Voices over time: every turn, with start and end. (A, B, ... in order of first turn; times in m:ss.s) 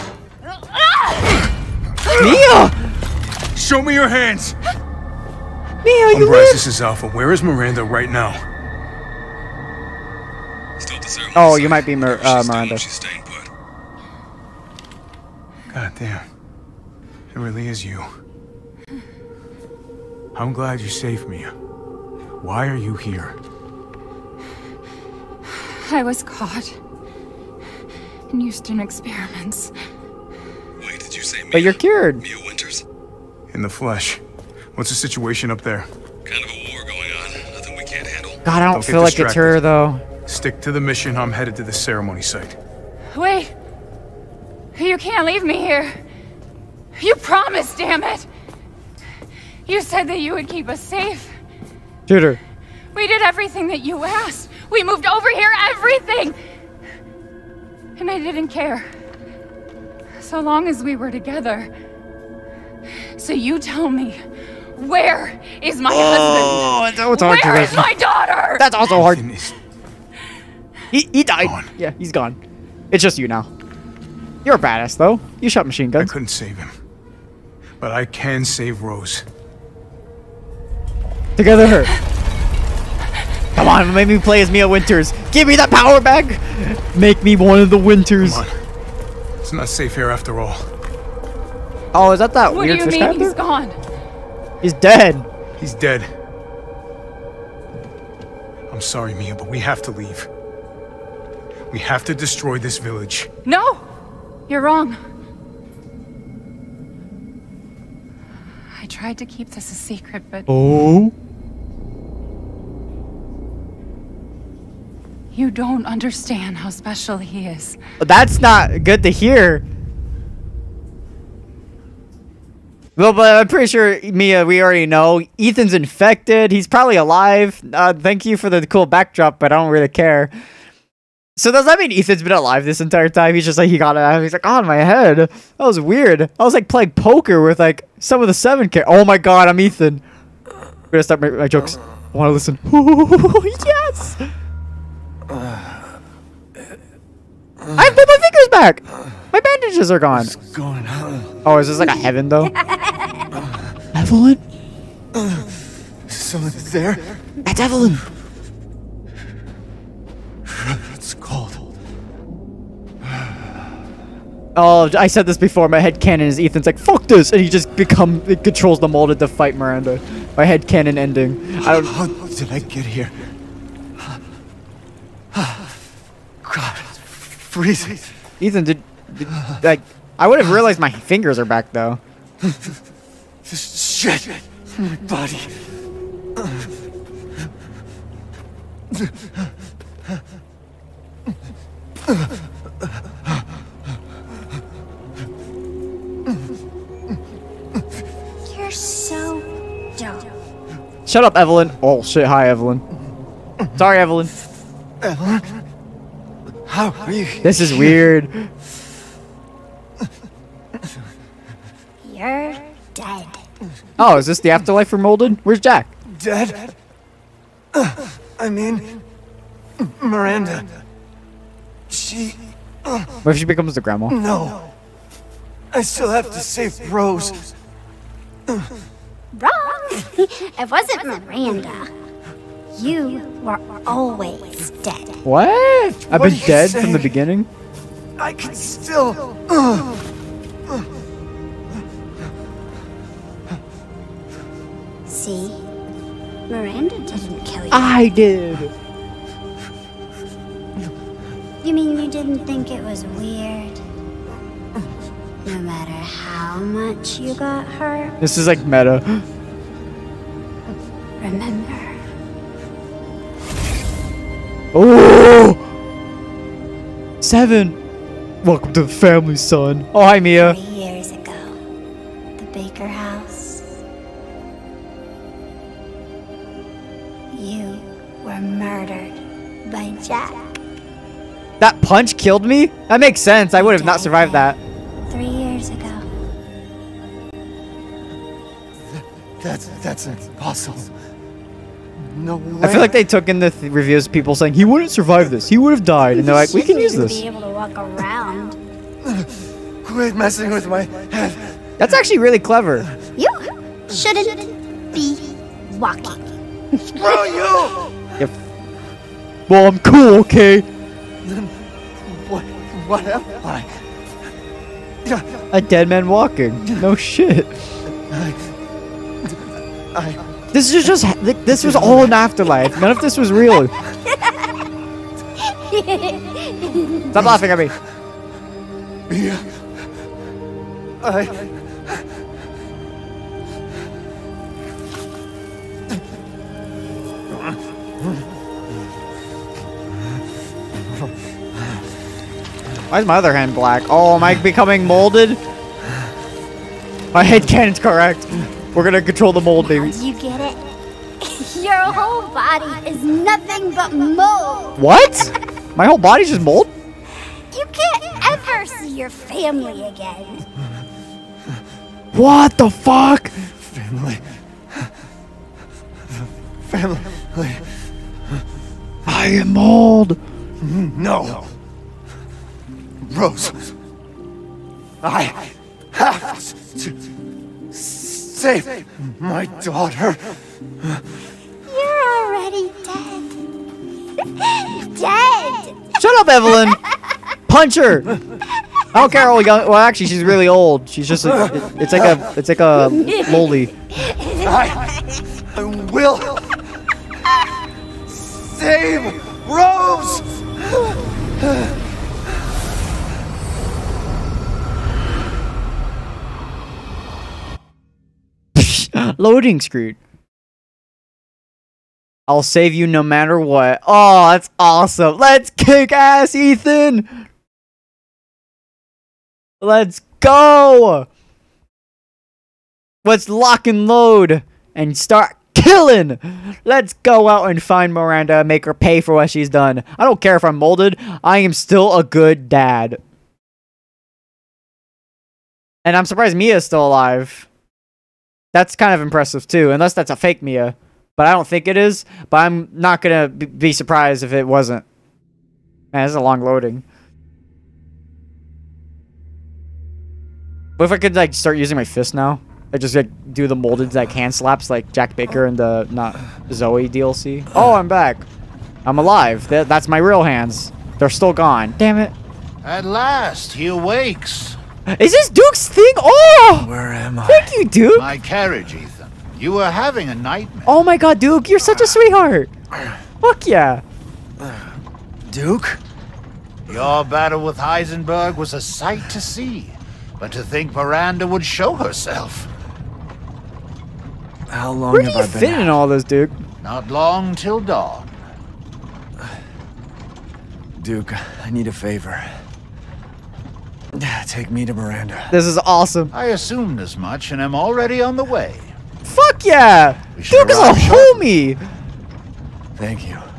0:02.1-0:02.9 A
0:03.5-0:04.5 B
0:05.8-0:06.6 A
0:06.1-0:08.4 C
0:10.8-0:13.5 D
0:11.3-0:12.8 A
0:15.7-0:16.2 C
0:17.3-0:18.1 C
0:20.3-0:21.5 C
0:22.4-0:23.4 C
0:25.6-0:26.8 E
0:28.3-0:29.7 E
0:30.8-0:32.8 D
0:31.5-0:32.2 A
0:33.5-0:34.2 C
0:34.8-0:35.9 C
0:36.2-0:38.4 D
0:38.4-0:40.0 A
0:38.7-0:39.6 C
0:40.2-0:42.6 C
0:43.1-0:43.5 E
0:44.7-0:46.0 E
0:46.9-0:48.3 E
0:49.6-0:51.4 E
0:52.1-0:52.4 A
0:52.9-0:56.4 E
0:58.0-0:58.9 E
1:00.2-1:01.7 E
1:03.2-1:04.2 E
1:04.8-1:08.7 E
1:05.9-1:07.9 A
1:08.6-1:09.2 A
1:08.9-1:09.5 C
1:10.9-1:12.4 A
1:11.4-1:11.7 C
1:12.9-1:13.5 A
1:14.4-1:16.1 A
1:16.0-1:16.7 C
1:17.8-1:19.2 C
1:21.4-1:21.9 A
1:23.5-1:28.4 A
1:28.2-1:28.5 C
1:29.4-1:30.7 C
1:31.9-1:33.4 A
1:32.5-1:33.8 E
1:34.6-1:35.3 A
1:35.6-1:36.1 C
1:38.7-1:40.3 C
1:41.7-1:43.3 C
1:43.4-1:43.8 E
1:44.5-1:45.0 E
1:48.7-1:50.5 E
1:50.5-1:51.1 A
1:55.3-1:57.8 E
1:58.0-1:59.6 A
2:03.0-2:10.3 A
2:11.4-2:20.0 A
2:20.9-2:24.2 A
2:25.3-2:25.8 B
2:27.8-2:30.3 A
2:30.1-2:31.3 B
2:31.4-2:32.5 A
2:33.9-2:34.4 A
2:35.2-2:35.5 B
2:36.1-2:37.2 B
2:37.4-2:38.0 A
2:40.5-2:41.8 B
2:44.5-2:51.9 A
2:51.6-2:53.3 B
2:55.3-2:55.6 B
2:56.4-2:58.1 B
2:58.4-3:02.0 A
3:03.4-3:05.6 B
3:18.4-3:20.3 F
3:21.0-3:22.8 A
3:23.8-3:24.3 A
3:25.0-3:25.5 B
3:26.6-3:28.0 B
3:27.4-3:28.5 A
3:32.0-3:33.4 F
3:34.0-3:35.9 A
3:36.1-3:36.8 B
3:37.7-3:39.0 B
3:39.8-3:40.7 B
3:41.9-3:43.1 B
3:43.2-3:44.2 A
3:44.1-3:44.7 B
3:45.7-3:47.5 B
3:49.3-3:51.9 F
3:52.7-3:55.2 F
3:55.2-3:57.5 A
3:56.0-3:57.1 B
3:58.2-3:59.8 B
4:05.1-4:05.6 F
4:06.5-4:08.0 F
4:07.7-4:08.7 A
4:11.6-4:13.8 F
4:15.4-4:18.1 F
4:18.2-4:19.2 A
4:21.2-4:22.0 F
4:24.7-4:25.6 A
4:27.2-4:27.8 A
4:28.4-4:30.6 A
4:30.4-4:31.6 F
4:32.4-4:33.7 F
4:37.3-4:40.4 F
4:41.6-4:44.6 A
4:43.5-4:44.5 F
4:45.1-4:46.0 F
4:49.4-4:50.9 B
4:52.0-4:53.0 B
4:52.6-4:57.2 A
4:56.1-4:58.6 F
4:59.8-5:01.6 B
5:01.8-5:02.9 A
5:03.2-5:06.3 F
5:07.0-5:07.8 B
5:09.5-5:10.7 A
5:12.0-5:13.8 B
5:15.5-5:17.6 A
5:18.1-5:18.4 B
5:19.9-5:20.2 B
5:20.5-5:23.7 A
5:25.6-5:26.8 F
5:27.1-5:27.7 A
5:29.1-5:29.5 B
5:31.0-5:31.5 B
5:42.9-5:45.4 A
5:47.1-5:49.9 A
5:49.6-5:54.8 F
5:54.8-5:56.7 A
5:57.5-6:00.4 F
6:02.1-6:03.4 A
6:03.6-6:04.2 B
6:06.6-6:07.6 B
6:09.0-6:10.2 A
6:10.6-6:11.5 B
6:13.0-6:13.7 B
6:15.0-6:16.9 B
6:17.7-6:20.4 B
6:21.6-6:23.4 F
6:24.4-6:25.8 F
6:26.0-6:26.8 A
6:27.5-6:28.2 A
6:28.9-6:33.7 A
6:34.4-6:34.8 B
6:35.5-6:36.5 B
6:38.1-6:40.3 B
6:48.5-6:50.0 A
6:52.3-6:57.2 A
6:59.6-7:01.1 A
7:03.0-7:13.0 A
7:15.8-7:17.5 A
7:18.5-7:24.8 A
7:25.9-7:26.8 A
7:30.8-7:38.3 A
7:38.8-7:42.1 A
7:42.6-7:44.6 G
7:44.9-7:46.7 A
7:46.6-7:47.6 B
7:47.2-7:48.1 A
7:47.9-7:50.7 G
7:50.7-7:52.5 A
7:53.2-7:53.8 A
7:54.4-7:54.6 B
7:55.2-7:55.8 B
7:56.7-8:02.5 G
8:04.5-8:05.8 B
8:04.9-8:06.4 A
8:06.6-8:08.1 G
8:10.8-8:12.4 B
8:13.9-8:15.3 B
8:15.3-8:16.1 A
8:16.1-8:18.7 G
8:19.0-8:21.6 A
8:20.2-8:21.2 G
8:22.8-8:23.2 B